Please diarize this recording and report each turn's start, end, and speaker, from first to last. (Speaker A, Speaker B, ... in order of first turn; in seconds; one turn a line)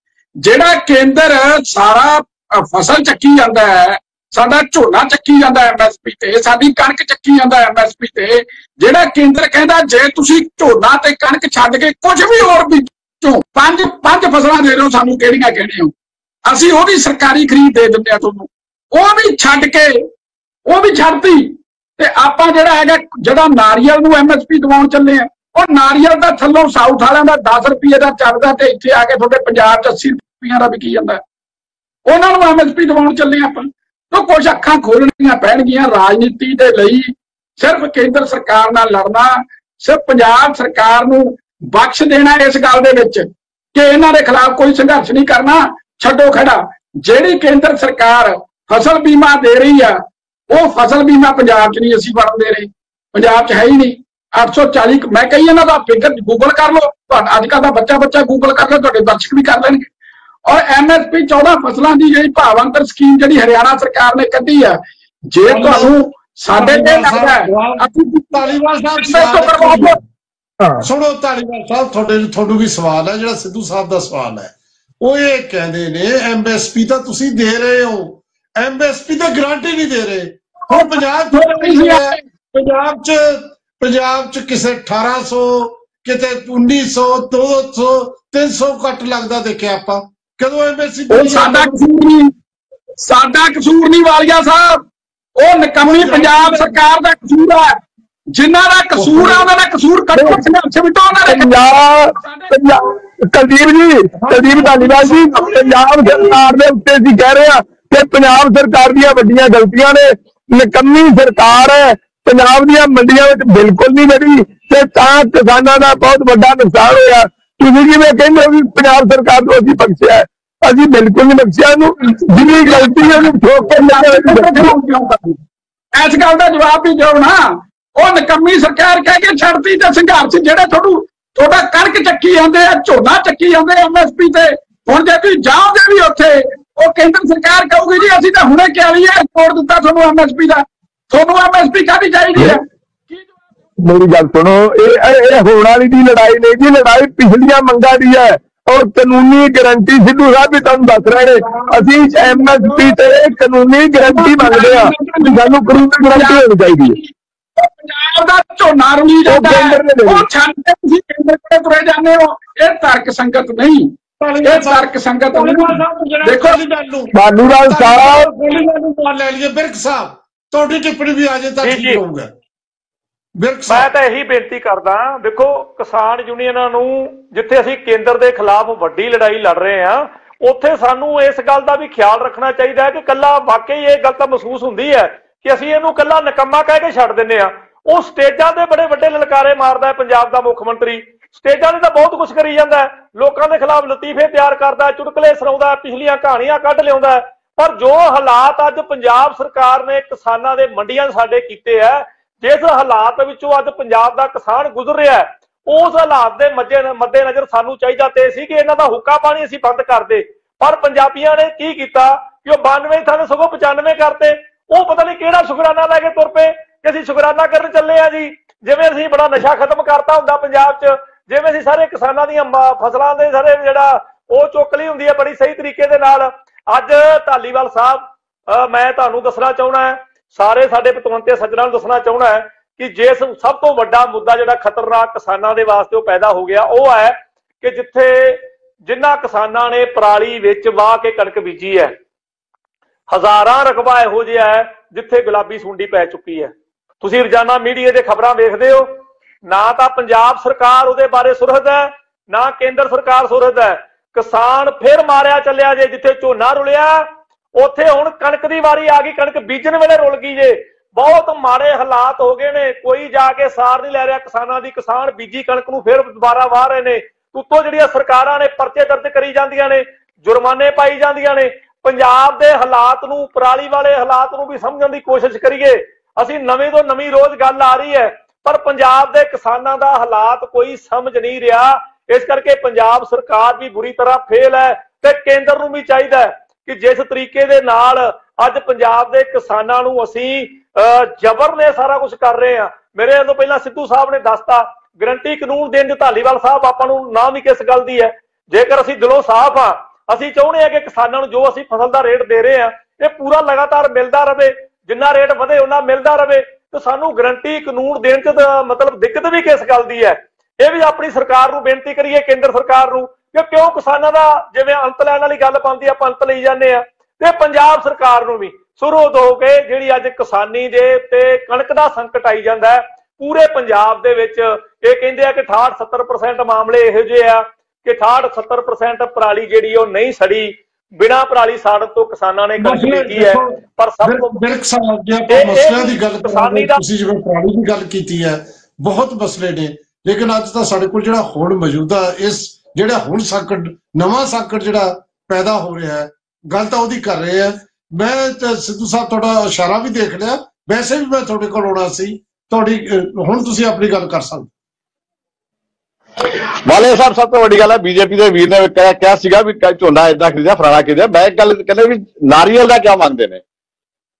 Speaker A: 0.4-15.9
Speaker A: 16.5-20.1
Speaker A: 20.6-31.2
Speaker A: 32.1-59.9
Speaker A: 60.5-64.8
Speaker A: 65.3-70.0
Speaker B: 65.4-65.9
Speaker B: 66.5-70.0
Speaker B: 70.8-91.8
Speaker A: 80.7-82.2
Speaker A: 91.1-92.3
Speaker A: 93.0-94.8
Speaker A: 95.4-97.7
Speaker B: 95.8-96.8
Speaker A: 98.3-101.5
Speaker B: 99.0-99.5
Speaker C: 100.1-100.4
Speaker C: 101.2-124.7
Speaker A: 102.2-102.7
Speaker B: 104.2-106.3
Speaker A: 122.5-125.4
Speaker A: 125.9-143.3
Speaker C: 142.3-142.6
Speaker C: 143.8-157.0
Speaker B: 151.2-152.9
Speaker A: 154.0-157.0
Speaker A: 157.6-163.9
Speaker C: 159.3-160.3
Speaker B: 164.2-167.1
Speaker A: 164.4-166.6
Speaker C: 167.1-168.2
Speaker B: 167.7-172.3
Speaker D: 171.6-172.0
Speaker B: 173.4-173.9
Speaker D: 173.7-241.9
Speaker D: 243.1-248.9
Speaker D: 249.5-257.1
Speaker D: 257.6-334.5
Speaker B: 332.6-354.5
Speaker D: 335.3-336.8
Speaker E: 356.2-363.4